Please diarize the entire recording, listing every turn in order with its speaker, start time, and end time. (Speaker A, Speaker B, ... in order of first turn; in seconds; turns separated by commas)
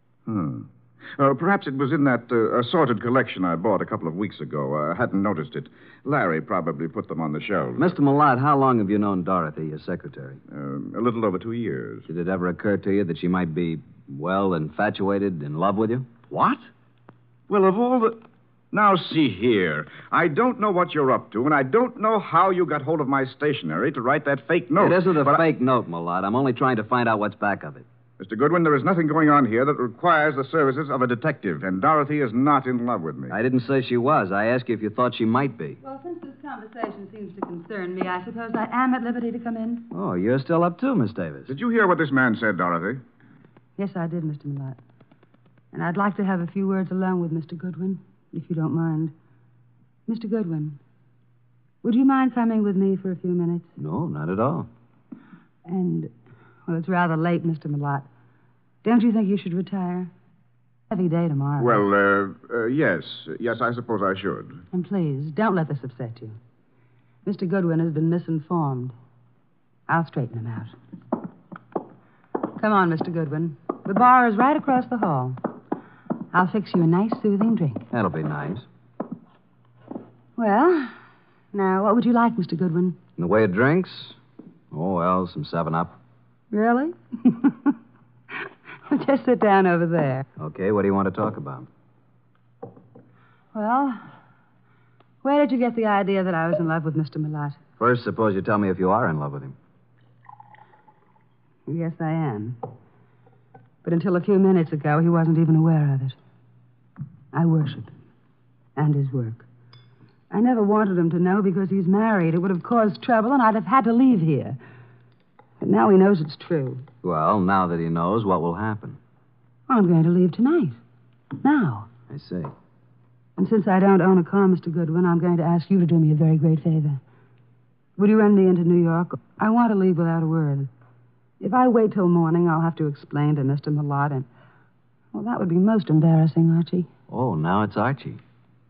Speaker A: 0.2-7.9, Speaker B: 7.8-10.4, Speaker A: 10.5-12.1, Speaker B: 12.1-16.1, Speaker A: 16.3-16.7, Speaker A: 17.5-18.2, Speaker A: 18.7-25.4, Speaker B: 24.8-27.9, Speaker A: 28.2-33.3, Speaker B: 33.3-35.8, Speaker C: 35.8-39.9, Speaker B: 39.9-41.5, Speaker A: 41.5-43.0, Speaker C: 43.8-44.8, Speaker C: 45.7-49.1, Speaker C: 50.1-50.8, Speaker C: 51.8-53.7, Speaker B: 53.8-54.7, Speaker C: 55.6-56.1, Speaker C: 56.6-58.1, Speaker C: 58.8-60.1, Speaker C: 60.9-61.8, Speaker A: 61.6-64.6, Speaker C: 64.7-66.4, Speaker C: 67.2-68.9, Speaker C: 69.9-70.7, Speaker C: 72.6-75.4, Speaker C: 76.3-77.9, Speaker B: 77.9-78.7, Speaker C: 80.3-81.0, Speaker C: 81.5-83.0, Speaker B: 83.2-84.2, Speaker B: 84.7-85.9, Speaker C: 86.5-87.7, Speaker C: 88.9-90.2, Speaker B: 90.4-91.7, Speaker C: 93.5-94.0, Speaker C: 95.2-97.6, Speaker B: 97.8-99.5, Speaker C: 101.7-102.6, Speaker C: 103.8-106.2, Speaker C: 107.3-107.9, Speaker C: 108.8-109.5, Speaker C: 110.3-114.6, Speaker C: 115.6-116.8, Speaker B: 117.0-119.0, Speaker C: 119.7-120.8, Speaker C: 121.4-121.9, Speaker B: 122.1-122.5, Speaker C: 123.4-127.0, Speaker C: 128.0-130.7, Speaker C: 131.4-134.3, Speaker C: 135.1-136.9, Speaker B: 137.1-138.2